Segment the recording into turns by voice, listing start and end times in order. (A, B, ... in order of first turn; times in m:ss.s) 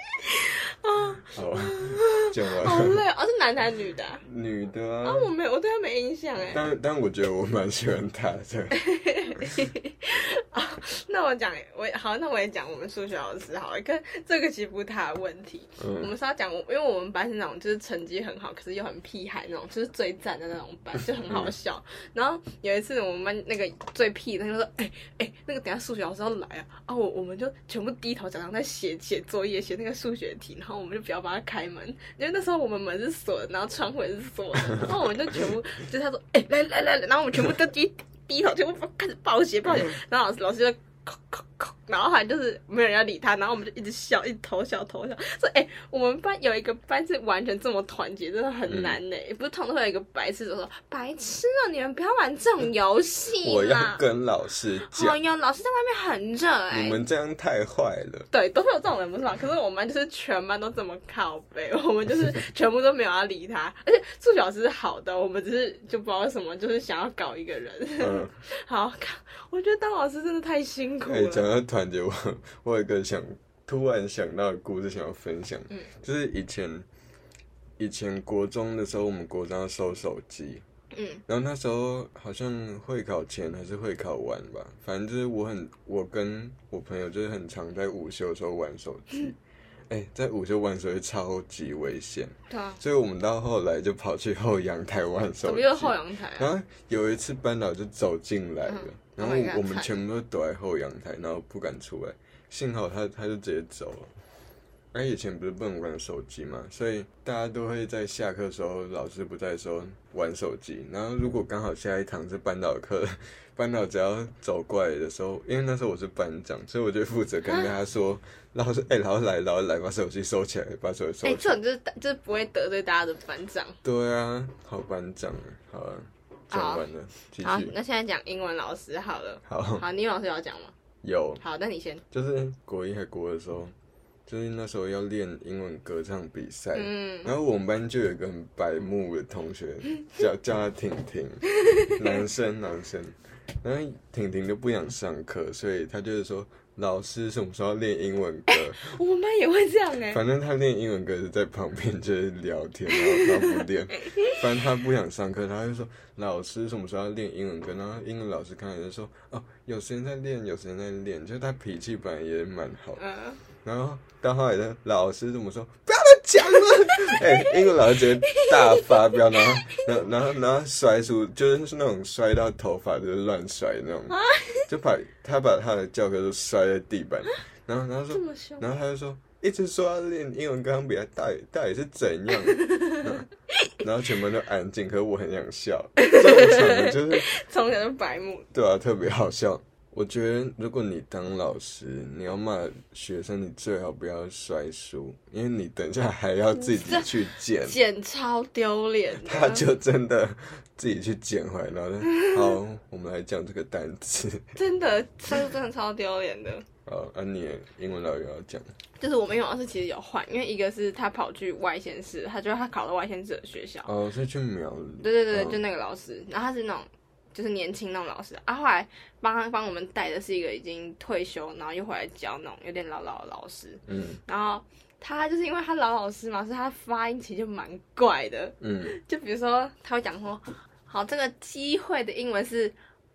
0:00.2-0:04.2 A
0:01.2-0:03.0 B
0:04.2-0:05.3 B
0:05.0-0:06.6 A
0:06.5-0:08.8 B
0:08.7-0:54.0 A
0:15.8-0:16.1 B
0:21.3-0:21.5 B
0:48.7-0:49.0 B
0:53.4-0:55.2 B
0:54.9-0:57.0 A
0:56.7-0:58.3 B
0:58.3-1:11.5 A
1:08.0-1:08.4 B
1:11.1-1:16.9 B
1:17.8-1:20.6 B
1:20.9-1:21.2 A
1:21.3-1:29.4 B
1:29.9-1:44.1 B
1:32.5-1:32.8 A
1:35.4-1:36.5 A
1:38.7-1:39.9 A
1:44.9-2:01.6 B
2:01.2-2:03.8 A
2:03.8-2:07.7 B
2:06.5-2:06.9 A
2:07.4-2:10.7 A
2:09.4-2:09.8 B
2:11.0-2:11.4 B
2:11.4-2:12.0 A
2:12.1-2:13.7 B
2:14.3-2:21.4 B
2:16.8-2:17.3 A
2:21.7-2:22.0 A
2:22.0-2:28.9 B
2:28.5-2:30.2 A
2:30.1-2:43.0 B
2:33.0-2:34.4 A
2:43.0-2:43.4 A
2:43.6-3:03.3 B
2:47.1-2:49.9 A
2:54.1-2:54.7 A
2:58.1-2:58.7 A
3:02.5-3:03.1 A
3:03.8-3:07.3 B
3:06.0-3:08.5 A
3:08.5-3:17.8 B
3:16.7-3:17.1 A
3:17.6-3:19.7 A
3:19.2-3:24.6 B
3:22.2-3:22.5 A
3:24.6-3:26.7 A
3:26.9-3:28.7 B
3:29.0-3:33.9 A
3:33.9-3:35.6 B
3:35.0-3:52.8 A
3:43.9-3:44.2 B
3:48.6-3:49.0 B